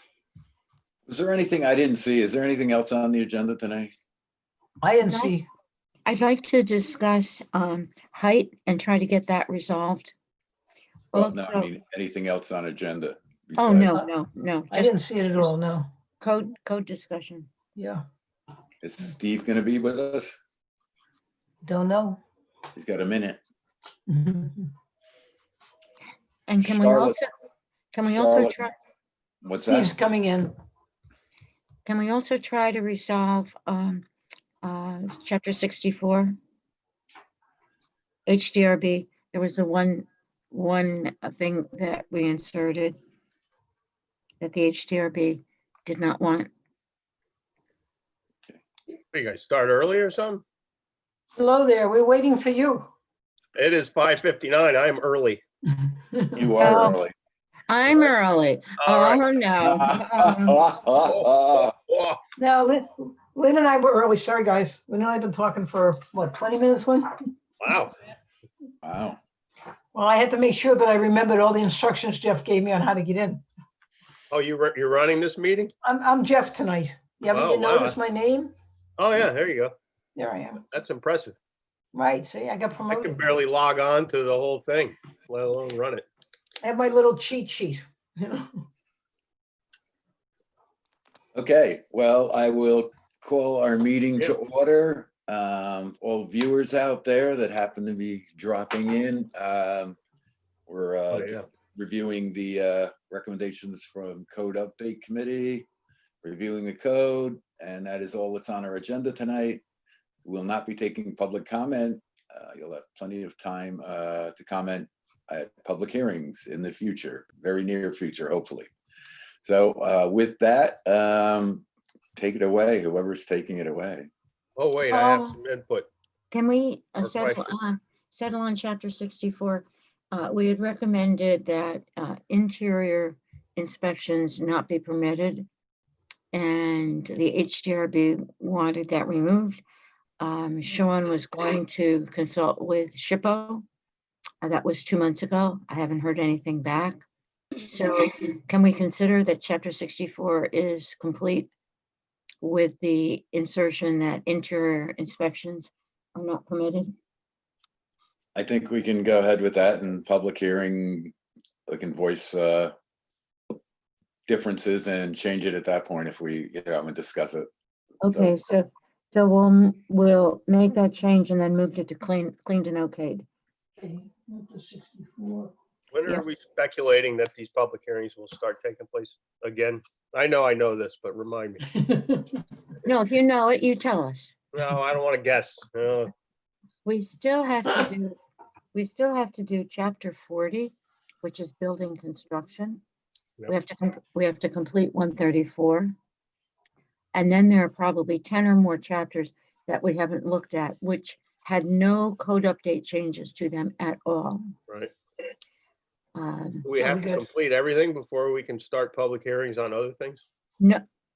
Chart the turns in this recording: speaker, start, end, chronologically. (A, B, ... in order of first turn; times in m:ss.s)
0:01.1-0:03.9 A
0:04.8-0:05.5 B
0:05.0-0:05.4 C
0:06.1-0:10.2 C
0:11.1-0:11.7 C
0:11.1-0:14.0 A
0:13.6-0:15.5 C
0:14.7-0:15.9 B
0:16.2-0:17.5 C
0:17.8-0:18.0 B
0:18.8-0:20.4 A
0:21.6-0:22.2 B
0:22.8-0:23.4 A
0:24.1-0:24.7 B
0:26.5-0:27.3 C
0:26.6-0:27.2 A
0:27.9-0:28.7 C
0:28.0-0:28.6 A
0:29.4-0:29.9 A
0:29.7-0:30.5 B
0:31.8-0:34.0 C
0:34.6-0:36.4 C
0:38.3-0:43.0 C
0:44.4-0:46.5 C
0:49.1-0:50.4 D
0:51.4-0:52.9 B
0:53.6-0:55.4 D
0:55.7-0:56.7 B
0:56.3-0:57.1 A
0:56.6-0:57.0 C
0:57.7-1:00.6 C
0:58.8-0:59.2 D
0:59.6-1:01.7 A
1:01.0-1:02.2 D
1:02.4-1:07.3 B
1:07.6-1:07.9 D
1:08.8-1:09.2 A
1:09.9-1:13.4 B
1:14.3-1:15.7 D
1:15.8-1:18.6 B
1:17.3-1:18.0 D
1:19.0-1:19.8 D
1:20.2-1:20.6 B
1:20.7-1:21.4 D
1:21.9-1:23.2 B
1:22.9-1:26.0 D
1:26.6-1:28.5 B
1:31.4-1:40.0 A
1:40.7-1:45.7 A
1:41.1-1:41.5 D
1:46.2-1:49.6 A
1:50.2-1:58.7 A
1:59.4-2:01.6 A
2:02.2-2:04.1 A
2:04.6-2:05.9 D
2:04.9-2:05.4 C
2:06.3-2:15.5 C
2:07.0-2:07.5 D
2:16.3-2:19.6 C
2:20.2-2:23.6 C
2:24.4-2:27.0 C
2:27.6-2:31.5 C
2:32.4-2:36.9 C
2:38.4-2:41.1 A
2:41.7-2:42.7 A
2:44.3-2:47.5 A
2:48.0-2:53.3 C
2:48.1-2:48.3 A
2:53.8-2:55.5 B
2:55.9-3:01.7 D
3:01.7-3:02.3 B
3:02.8-3:04.4 C
3:04.5-3:06.1 D
3:06.8-3:08.2 C
3:08.7-3:12.8 C
3:13.5-3:16.0 C
3:17.1-3:24.6 C
3:26.2-3:26.7 C
3:26.6-3:30.2 D
3:26.7-3:27.3 B